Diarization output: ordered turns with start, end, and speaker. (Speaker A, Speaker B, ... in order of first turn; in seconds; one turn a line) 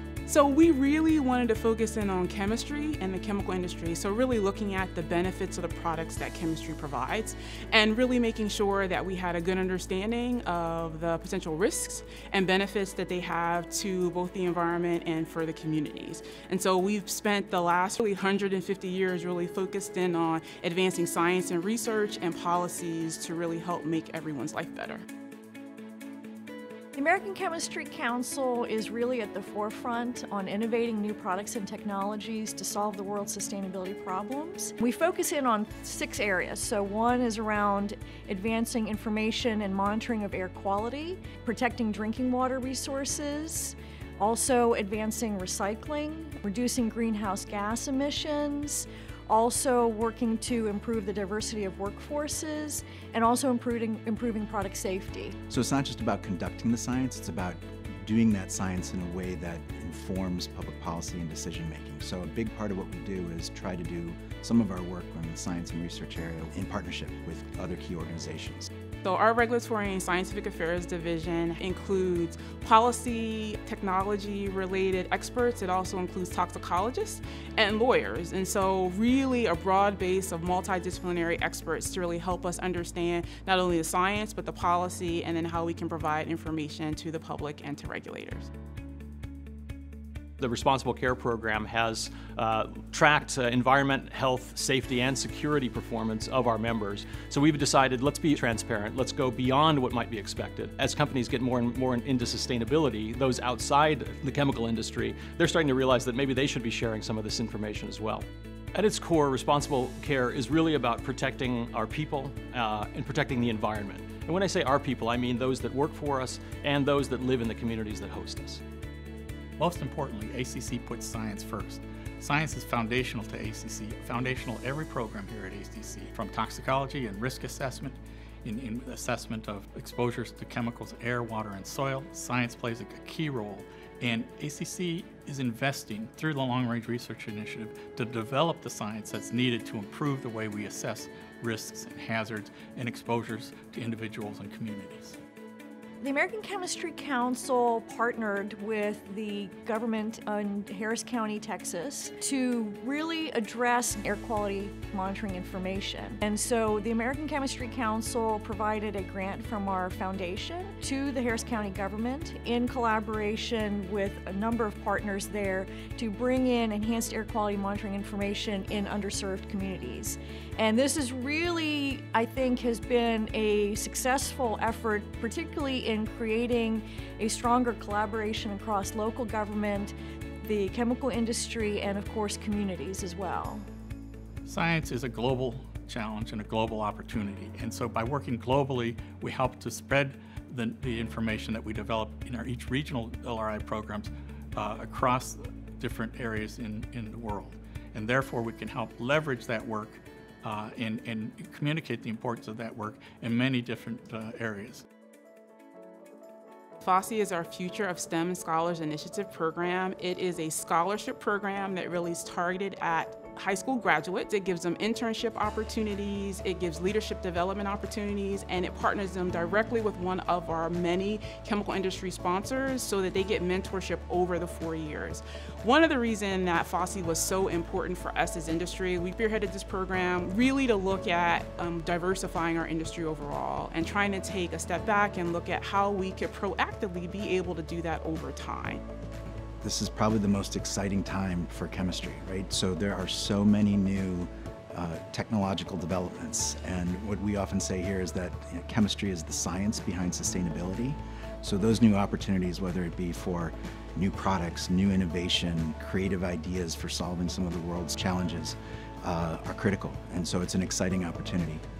Speaker A: 0.3-25.0
Speaker B: 26.9-55.4
Speaker C: 55.5-68.7
Speaker A: 69.0-88.5
Speaker D: 90.4-118.6
Speaker E: 119.6-145.2
Speaker B: 146.0-183.7
Speaker E: 184.4-204.8
Speaker A: 206.8-238.8
Speaker C: 239.6-261.6